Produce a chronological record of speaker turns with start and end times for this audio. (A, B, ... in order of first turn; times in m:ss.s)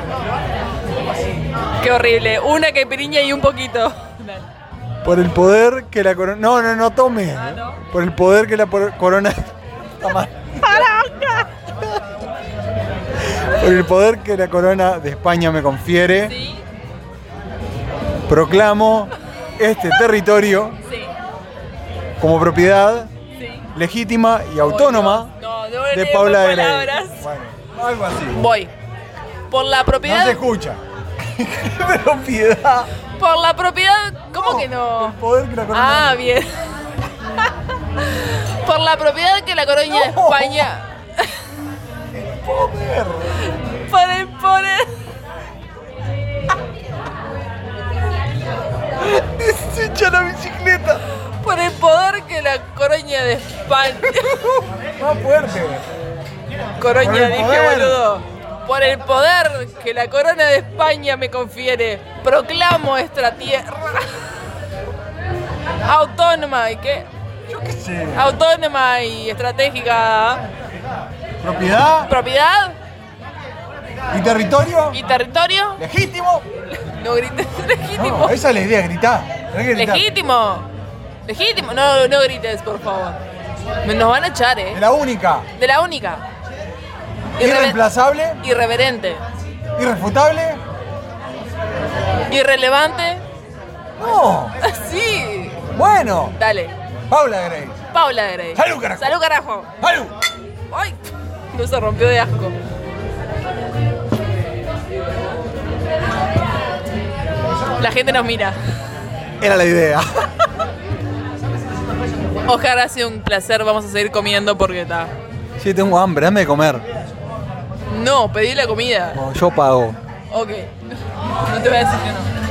0:01.8-0:04.4 A
0:05.0-0:10.9 B
0:07.4-0:07.8 A
0:10.6-0:11.5 A
0:13.3-0:16.4 B
0:16.2-0:16.6 A
0:18.3-0:20.8 B
0:20.8-0:21.1 A
0:22.2-0:23.1 B
0:23.3-0:23.7 A
0:23.8-0:25.3 B
0:24.6-0:27.3 A
0:25.9-0:28.4 B
0:28.3-0:28.7 A
0:29.5-0:30.4 A
0:30.0-0:32.9 B
0:33.2-0:35.2 A
0:34.3-0:36.2 B
0:35.7-0:36.5 A
0:38.0-0:41.5 A
0:39.9-0:40.7 B
0:42.1-0:43.4 B
0:43.4-0:44.9 A
0:49.0-0:51.0 B
0:51.4-0:54.6 A
0:54.0-0:55.8 B
0:56.8-1:04.3 A
0:56.9-0:58.1 B
1:05.8-1:07.1 A
1:07.5-1:08.3 B
1:08.1-1:10.4 A
1:11.4-1:12.1 B
1:12.0-1:12.8 A
1:14.1-1:15.0 B
1:14.9-1:15.8 A
1:15.8-1:16.4 B
1:16.7-1:18.4 A
1:18.0-1:20.1 B
1:19.7-1:20.7 A
1:21.3-1:23.2 A
1:23.8-1:24.8 A
1:24.7-1:25.5 B
1:25.6-1:26.2 A
1:27.4-1:27.8 A
1:27.4-1:28.4 B
1:28.4-1:29.2 A
1:29.8-1:30.6 B
1:32.3-1:33.2 A
1:34.0-1:34.6 B
1:34.6-1:35.7 A
1:35.7-1:36.4 B
1:36.4-1:36.7 A
1:37.1-1:37.8 B
1:37.9-1:39.7 A
1:38.6-1:39.2 B
1:39.8-1:40.2 B
1:40.7-1:42.6 A
1:47.8-1:48.6 A
1:49.4-1:50.3 B
1:52.4-1:55.1 A
1:55.6-1:56.8 B
1:57.9-1:59.2 A
1:59.1-2:00.0 B
2:00.3-2:00.7 A
2:01.4-2:02.3 A